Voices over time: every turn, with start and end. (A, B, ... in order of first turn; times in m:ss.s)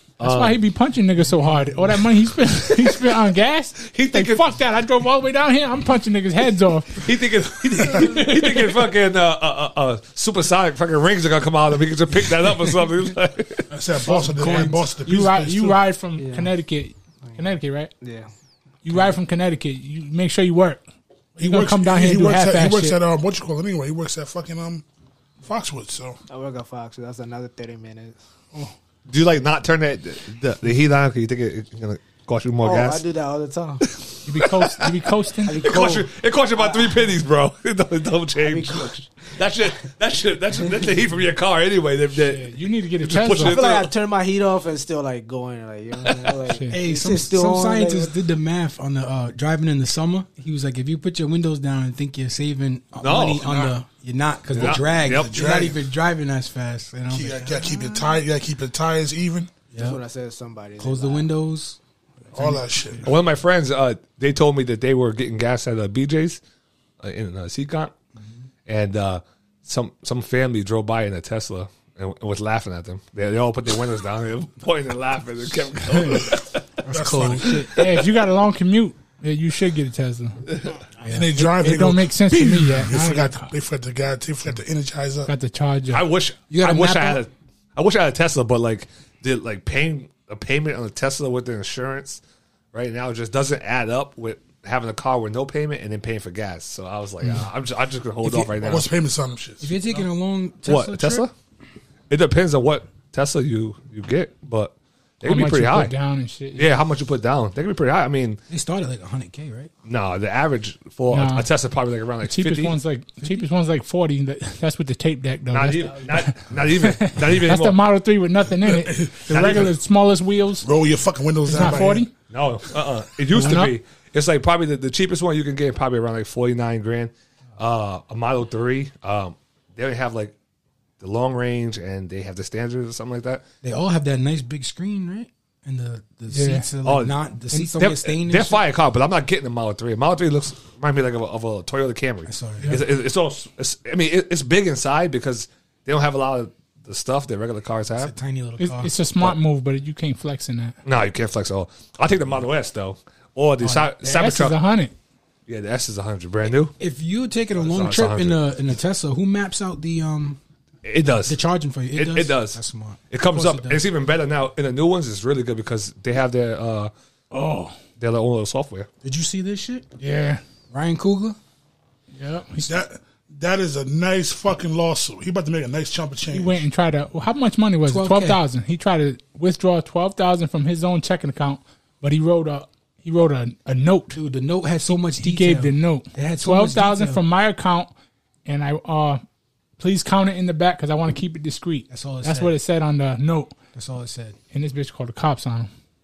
0:00.2-0:00.6 A
0:00.2-0:07.1 B
0:02.7-0:03.1 A
0:03.8-0:04.4 A
0:07.0-0:13.7 A
0:07.8-0:08.8 B
0:13.7-0:15.8 C
0:14.0-0:14.9 D
0:15.0-0:17.9 B
0:16.2-0:16.5 E
0:18.0-0:18.3 E
0:18.8-0:20.8 B
0:21.4-0:24.8 C
0:21.4-0:23.0 B
0:25.4-0:26.2 C
0:26.3-0:28.2 E
0:29.1-0:33.0 A
0:32.6-0:33.8 E
0:33.8-0:35.0 A
0:34.2-0:35.7 B
0:35.4-0:37.1 E
0:35.6-0:43.9 A
0:38.4-0:39.4 E
0:42.2-0:43.6 B
0:43.4-0:48.1 E
0:46.0-0:46.3 A
0:46.5-0:46.8 B
0:46.7-0:57.6 D
0:53.0-0:53.5 A
0:53.4-0:53.8 C
0:54.5-0:55.4 A
0:55.0-0:55.8 C
0:57.1-0:59.5 C
0:59.7-1:00.0 D
0:59.7-1:01.3 E
1:00.8-1:02.6 D
1:02.3-1:03.1 C
1:03.0-1:06.4 A
1:07.0-1:07.9 A
1:08.7-1:16.7 A
1:15.9-1:16.4 B
1:16.8-1:17.5 D
1:16.9-1:17.5 C
1:17.4-1:20.4 B
1:17.5-1:18.0 A
1:21.0-1:21.4 D
1:21.1-1:25.3 C
1:21.4-1:23.5 B
1:25.3-1:26.0 B
1:25.9-1:32.2 A
1:26.5-1:27.2 D
1:32.7-1:38.9 A
1:37.2-1:37.5 D
1:38.2-1:38.8 D
1:38.6-1:39.7 C
1:39.6-1:41.3 D
1:40.6-1:41.3 A
1:42.1-1:45.9 A
1:45.2-1:46.7 B
1:46.5-1:48.4 A
1:48.5-1:49.7 D
1:49.8-1:52.8 A
1:51.1-1:51.5 B
1:52.2-2:00.7 B
1:55.5-1:57.8 A
1:58.6-1:59.7 C
1:59.3-1:59.7 A
2:00.6-2:02.0 C
2:01.5-2:02.1 B
2:02.3-2:10.3 A
2:03.3-2:03.7 B
2:11.0-2:13.4 A
2:13.6-2:18.6 D
2:16.3-2:16.7 B
2:16.8-2:17.2 A
2:17.7-2:28.1 A
2:22.2-2:22.8 D
2:28.0-2:28.9 D
2:28.6-2:30.8 B
2:30.8-2:34.6 A
2:33.6-2:34.4 D
2:34.1-2:34.9 B
2:35.5-2:36.7 A
2:36.7-2:40.4 D
2:37.6-2:38.4 A
2:40.8-2:41.4 A
2:41.2-2:43.8 D
2:41.9-2:46.9 A
2:47.3-2:47.8 B
2:48.0-2:48.9 A
2:49.0-2:49.9 D
2:50.0-2:50.4 B
2:50.7-2:51.4 D
2:52.1-2:52.7 B
2:52.6-2:56.6 C
2:56.3-3:04.1 B
2:57.9-2:58.4 D
3:04.1-3:07.2 D
3:04.9-3:07.9 B
3:08.4-3:09.2 B
3:09.8-3:13.6 B
3:11.9-3:12.5 D
3:13.7-3:14.4 D
3:14.5-3:15.7 B